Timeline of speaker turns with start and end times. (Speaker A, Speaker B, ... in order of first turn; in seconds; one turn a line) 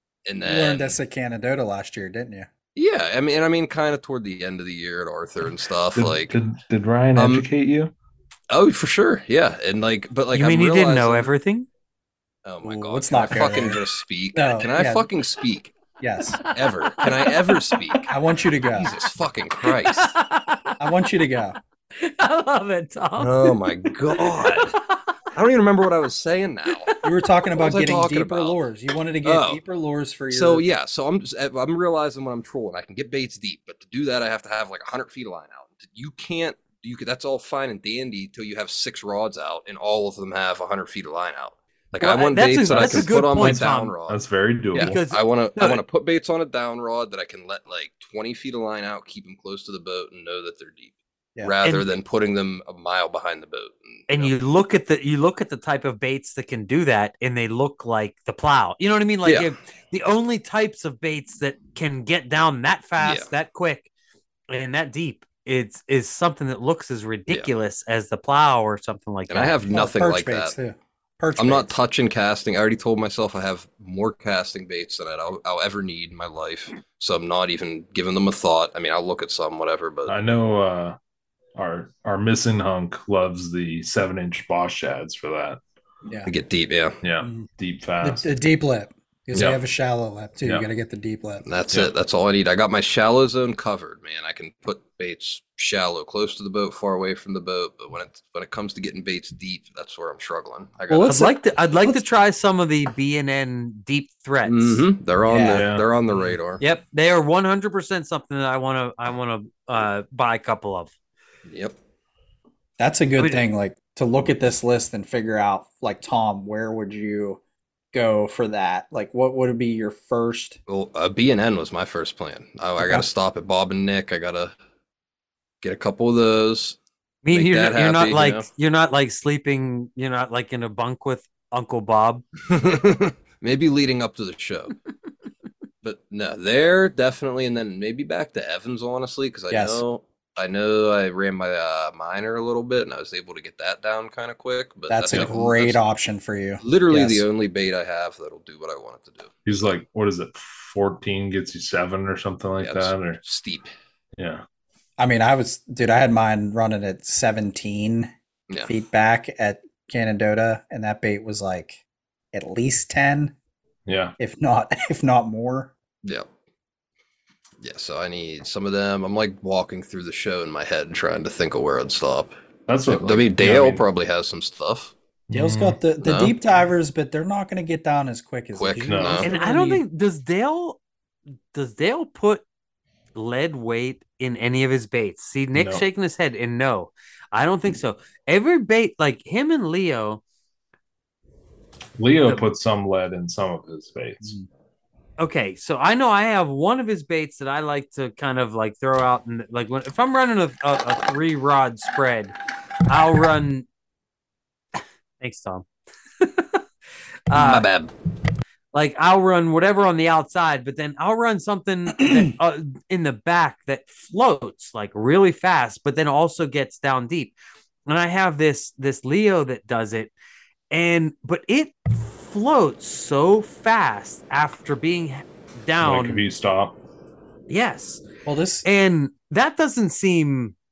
Speaker A: 0.3-1.0
Speaker B: 0.4-2.5
Speaker A: 2.8-6.4
Speaker C: 6.0-7.9
Speaker A: 7.2-7.5
Speaker A: 8.5-11.3
Speaker D: 10.3-11.7
Speaker A: 12.4-15.8
Speaker B: 12.6-15.1
Speaker B: 16.0-16.4
Speaker D: 16.4-17.8
Speaker A: 16.5-18.1
Speaker B: 18.1-18.9
Speaker A: 18.7-20.1
Speaker D: 19.6-20.8
Speaker B: 20.8-21.6
Speaker D: 22.0-25.1
Speaker A: 23.2-24.8
Speaker A: 25.3-26.9
Speaker D: 26.7-27.0
Speaker B: 27.0-30.6
Speaker A: 27.6-28.6
Speaker A: 29.2-29.6
Speaker A: 30.3-44.2
Speaker D: 42.0-44.0
Speaker C: 42.7-45.0
Speaker A: 44.7-54.3
Speaker D: 44.8-45.8
Speaker D: 54.1-63.9
Speaker A: 63.0-63.3
Speaker D: 64.5-69.5
Speaker A: 69.3-70.5
Speaker B: 69.7-71.7
Speaker A: 71.4-80.2
Speaker C: 80.1-81.0
Speaker C: 81.6-85.6
Speaker B: 86.0-86.3
Speaker A: 86.3-87.0
Speaker C: 87.0-88.3
Speaker B: 87.2-87.5
Speaker B: 88.0-91.4
Speaker A: 91.5-101.3
Speaker B: 100.9-102.0
Speaker D: 101.0-104.8
Speaker A: 104.5-106.6
Speaker B: 105.3-105.7
Speaker C: 105.5-105.9
Speaker D: 106.6-110.9
Speaker A: 111.5-111.8
Speaker B: 112.8-117.4
Speaker B: 117.9-120.6
Speaker A: 120.7-124.5
Speaker B: 122.8-123.1
Speaker A: 125.6-126.8
Speaker D: 127.2-132.2
Speaker A: 127.3-128.5
Speaker A: 132.5-134.8
Speaker A: 135.8-145.8
Speaker B: 139.5-139.8
Speaker B: 144.9-147.2
Speaker A: 146.6-149.3
Speaker C: 149.5-153.2
Speaker A: 152.6-153.7
Speaker C: 154.2-154.4
Speaker B: 155.0-158.1
Speaker B: 158.7-161.8
Speaker B: 162.3-163.3
Speaker C: 163.9-164.2
Speaker B: 164.2-165.7
Speaker A: 167.6-172.3
Speaker C: 172.7-173.8
Speaker A: 172.9-174.9
Speaker C: 175.3-175.8
Speaker B: 175.3-179.8
Speaker A: 176.0-176.3
Speaker A: 178.5-179.3
Speaker C: 178.9-179.2
Speaker D: 179.2-180.8
Speaker D: 181.5-182.4
Speaker D: 183.2-190.2
Speaker C: 185.5-185.8
Speaker C: 192.0-194.4
Speaker D: 195.2-202.3
Speaker D: 202.9-203.7
Speaker D: 205.2-205.7
Speaker D: 206.2-206.6
Speaker D: 207.3-207.7
Speaker A: 207.3-207.9
Speaker D: 208.7-217.3
Speaker D: 217.9-220.1
Speaker D: 220.7-226.2
Speaker C: 225.8-226.8
Speaker D: 227.5-228.0
Speaker B: 228.2-228.7
Speaker D: 228.7-230.6